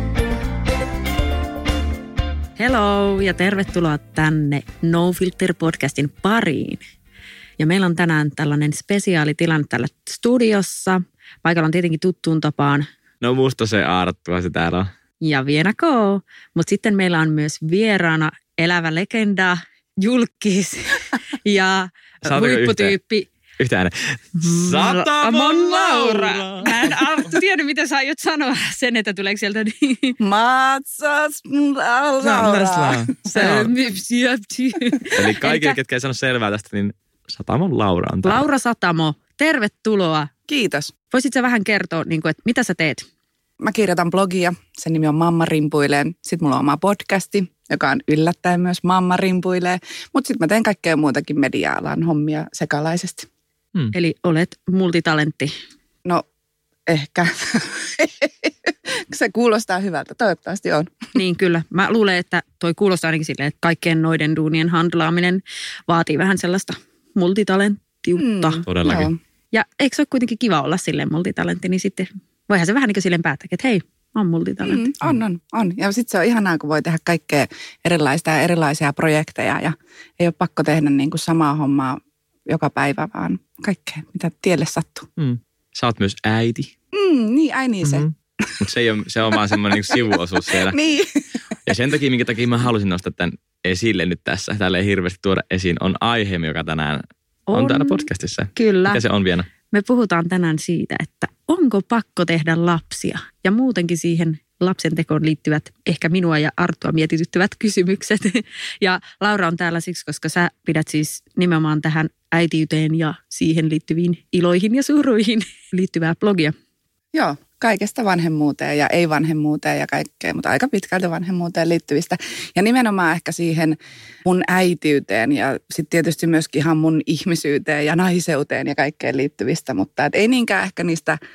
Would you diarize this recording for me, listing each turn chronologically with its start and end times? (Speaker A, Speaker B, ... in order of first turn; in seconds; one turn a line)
Speaker A: 2.6-6.8
Speaker A: 7.6-12.9
Speaker B: 13.2-14.9
Speaker A: 15.2-23.3
Speaker B: 22.2-22.9
Speaker B: 23.6-27.3
Speaker A: 24.4-30.2
Speaker C: 30.2-33.0
Speaker B: 32.2-33.7
Speaker A: 33.3-35.8
Speaker B: 35.1-38.5
Speaker A: 38.2-40.3
Speaker C: 40.5-40.9
Speaker A: 41.1-43.1
Speaker C: 43.6-53.3
Speaker A: 53.9-55.5
Speaker C: 56.9-60.9
Speaker A: 61.1-68.7
Speaker C: 68.2-69.2
Speaker B: 68.7-69.1
Speaker A: 69.5-74.8
Speaker C: 74.6-85.1
Speaker B: 85.2-86.7
Speaker C: 86.9-88.6
Speaker B: 87.8-90.8
Speaker C: 89.3-91.3
Speaker B: 91.7-99.5
Speaker A: 97.5-99.0
Speaker A: 99.7-116.5
Speaker C: 117.1-131.2